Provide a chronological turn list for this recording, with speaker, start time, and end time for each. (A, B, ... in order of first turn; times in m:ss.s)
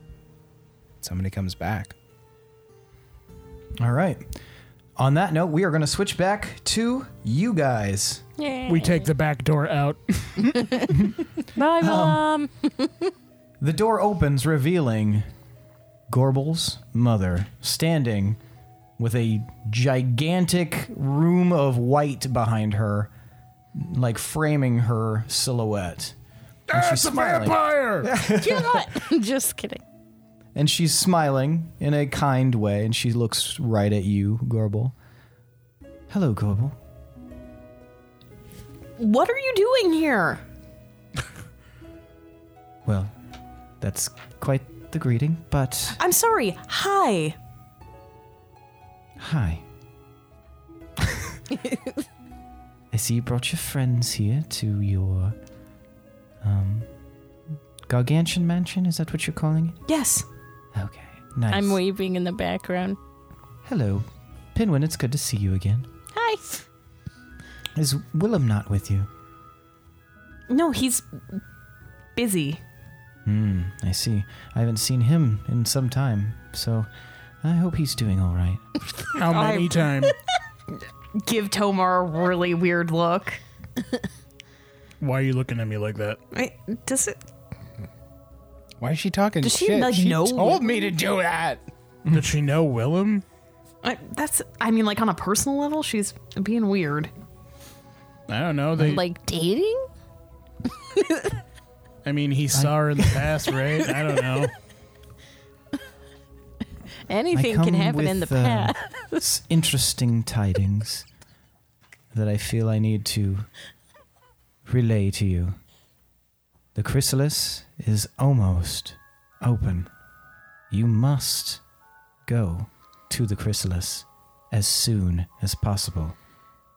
0:01.0-0:02.0 A
0:03.8-0:04.3 B
0:05.0-0:08.2 B
0:08.4-0:09.1 C
0:08.7-0:10.8 D
0:10.6-0:11.0 C
0:11.6-0:13.1 C
0:11.8-0:12.3 B
0:13.6-0:15.3 B
0:16.1-0:18.4 B
0:19.0-0:23.1 B
0:23.8-0:26.2 B
0:26.7-0:28.1 D
0:26.7-0:28.9 B
0:28.3-0:29.8 C
0:30.6-0:35.0 B
0:36.1-0:36.8 B
0:39.0-0:40.4 E
0:42.8-0:43.1 B
0:43.8-0:46.0 B
0:46.0-0:47.4 E
0:49.2-0:49.6 B
0:52.9-0:55.4 B
0:56.4-0:56.9 B
0:57.9-0:59.8 B
0:59.9-1:00.3 E
1:00.7-1:01.8 B
1:01.5-1:03.0 C
1:03.6-1:05.9 B
1:06.1-1:06.4 C
1:07.8-1:09.1 B
1:10.5-1:11.1 E
1:12.2-1:12.6 E
1:13.2-1:16.9 B
1:17.4-1:18.6 B
1:19.1-1:20.1 D
1:19.3-1:19.9 E
1:21.2-1:23.4 E
1:25.0-1:26.2 D
1:26.3-1:27.2 E
1:28.8-1:31.7 A
1:29.4-1:30.8 E
1:32.1-1:33.2 D
1:33.8-1:37.1 E
1:38.3-1:39.0 D
1:38.8-1:39.9 C
1:41.0-1:41.3 C
1:42.0-1:44.5 D
1:42.5-1:43.3 B
1:47.1-1:49.2 C
1:47.3-1:51.1 B
1:52.1-1:53.5 B
1:54.7-1:55.6 B
1:56.8-1:59.9 B
2:00.7-2:01.6 B
2:02.3-2:06.2 B